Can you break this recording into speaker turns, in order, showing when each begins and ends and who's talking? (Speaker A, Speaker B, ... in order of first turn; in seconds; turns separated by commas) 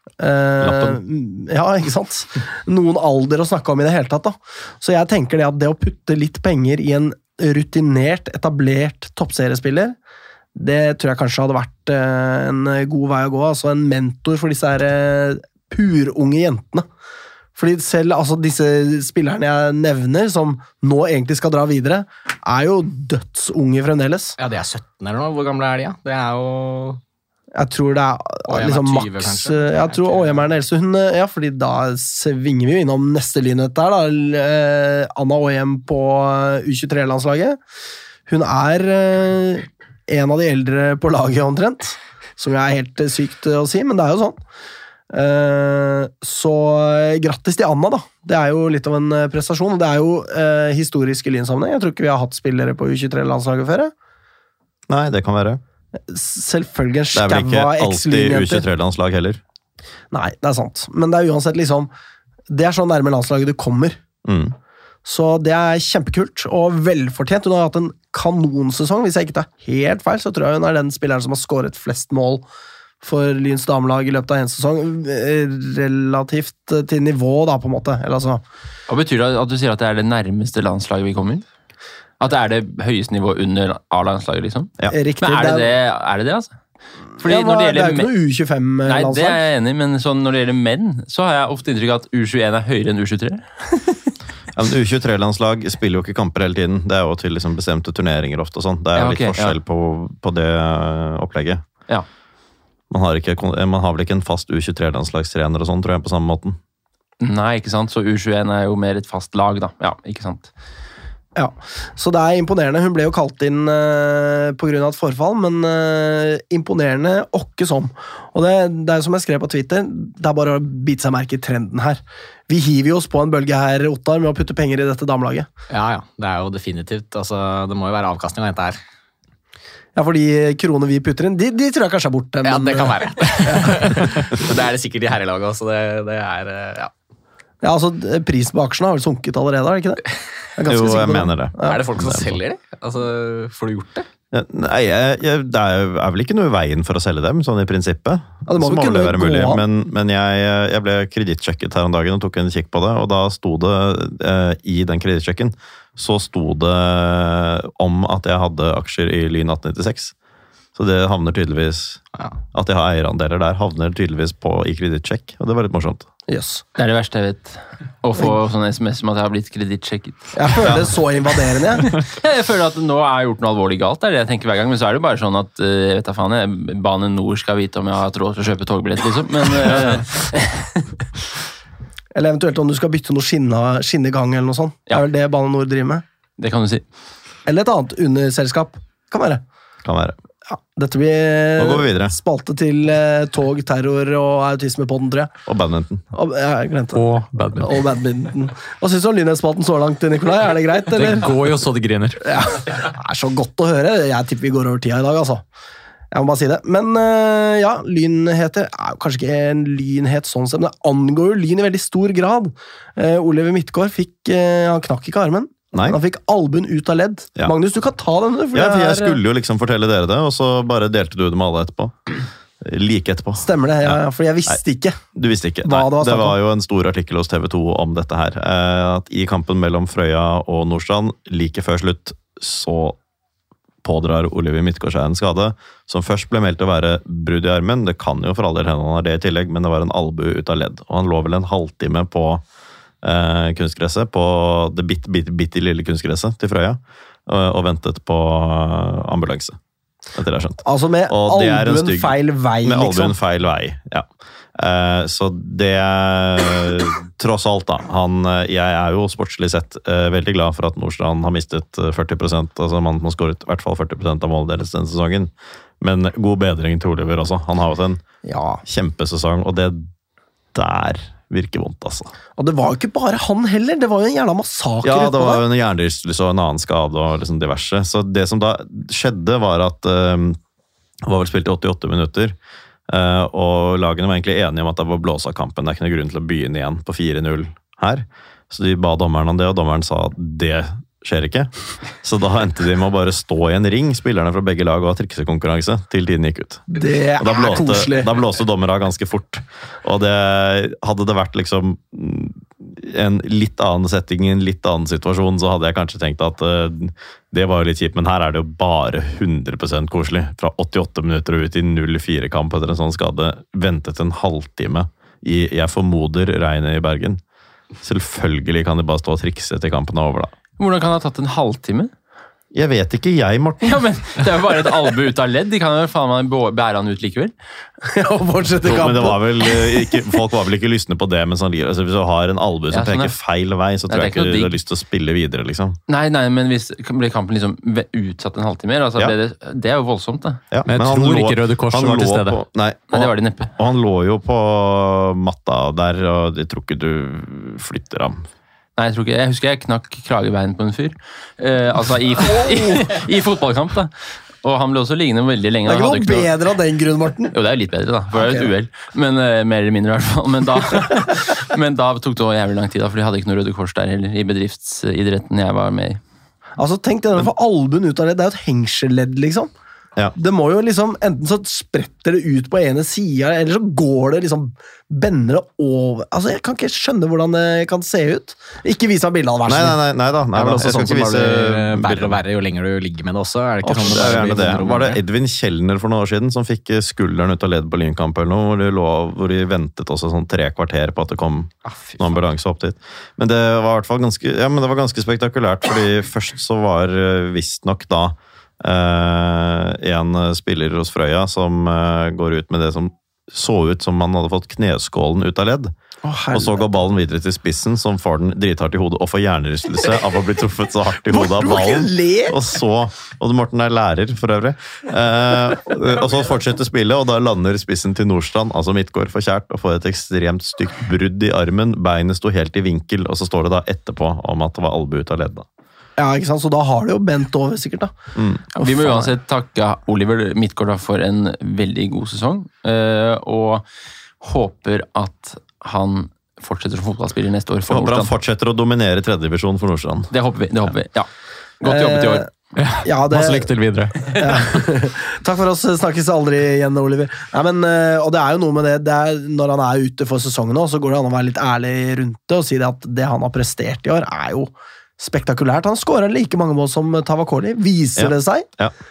Speaker A: 0.2-10.0, Speaker B: 0.6-1.0, Speaker A: 10.6-16.9, Speaker A: 17.6-24.4, Speaker C: 24.4-27.0, Speaker A: 27.6-37.6, Speaker C: 28.5-30.5, Speaker A: 38.3-44.4, Speaker A: 45.1-53.9, Speaker B: 54.9-55.6, Speaker A: 56.1-58.6, Speaker B: 57.1-59.4, Speaker A: 60.1-61.9, Speaker A: 62.5-64.0, Speaker B: 64.2-64.5, Speaker A: 65.0-72.5, Speaker A: 73.0-78.4, Speaker D: 78.9-81.4, Speaker D: 82.2-86.5, Speaker A: 84.9-85.7, Speaker D: 87.2-88.1, Speaker A: 87.2-89.4, Speaker D: 88.9-94.0, Speaker B: 94.5-101.6, Speaker D: 99.0-99.6, Speaker B: 102.9-106.6, Speaker D: 107.2-110.5, Speaker A: 111.4-125.5, Speaker C: 125.7-128.8, Speaker A: 130.0-134.2, Speaker C: 132.4-136.9, Speaker A: 137.6-140.0, Speaker A: 140.6-141.8, Speaker B: 140.7-142.4, Speaker C: 141.6-144.1, Speaker B: 144.3-160.1, Speaker A: 148.5-149.6, Speaker B: 160.8-166.1, Speaker A: 166.3-166.6, Speaker D: 166.8-170.6, Speaker A: 170.3-171.9, Speaker D: 171.8-180.9, Speaker A: 182.2-186.0, Speaker D: 186.4-186.8, Speaker A: 187.5-189.4, Speaker B: 189.8-190.2, Speaker A: 190.5-195.3, Speaker B: 191.6-192.2, Speaker B: 195.5-196.1, Speaker A: 196.1-201.3, Speaker E: 196.9-197.9, Speaker E: 200.9-202.4, Speaker A: 202.2-205.4, Speaker A: 206.1-219.2, Speaker B: 218.5-224.6, Speaker A: 223.4-225.0, Speaker B: 225.1-233.0, Speaker A: 225.6-226.4, Speaker B: 233.8-242.4, Speaker B: 243.0-249.6, Speaker B: 250.1-268.0, Speaker A: 250.6-253.2, Speaker A: 268.2-268.6, Speaker B: 268.6-269.9, Speaker B: 270.5-272.1, Speaker A: 272.4-275.4, Speaker B: 274.8-280.4, Speaker B: 281.0-282.4, Speaker B: 282.9-317.2, Speaker A: 296.7-298.1, Speaker B: 317.8-320.3, Speaker D: 320.6-321.9, Speaker B: 322.5-323.8, Speaker D: 323.6-327.3, Speaker A: 327.8-330.0, Speaker B: 328.6-335.8, Speaker D: 332.7-333.1, Speaker D: 333.9-334.6, Speaker D: 335.9-340.4, Speaker B: 340.5-348.3, Speaker E: 340.7-342.4, Speaker D: 342.9-343.5, Speaker D: 348.8-356.3, Speaker A: 352.3-352.8, Speaker A: 355.7-357.3, Speaker D: 357.3-366.0, Speaker A: 358.1-358.5, Speaker A: 366.6-369.5, Speaker A: 370.2-379.8, Speaker B: 379.5-382.2, Speaker C: 380.3-385.0, Speaker B: 383.6-405.7, Speaker C: 391.7-392.2, Speaker A: 406.0-406.6, Speaker B: 406.3-425.5, Speaker A: 411.0-412.4, Speaker A: 426.0-427.9, Speaker B: 428.1-428.6, Speaker D: 428.6-433.6, Speaker A: 428.6-429.0, Speaker D: 434.2-438.1, Speaker B: 437.7-440.1, Speaker D: 440.1-441.1, Speaker D: 441.6-442.3, Speaker A: 441.6-442.3, Speaker E: 442.6-444.6, Speaker A: 442.8-443.5, Speaker A: 444.1-458.5, Speaker B: 458.0-458.7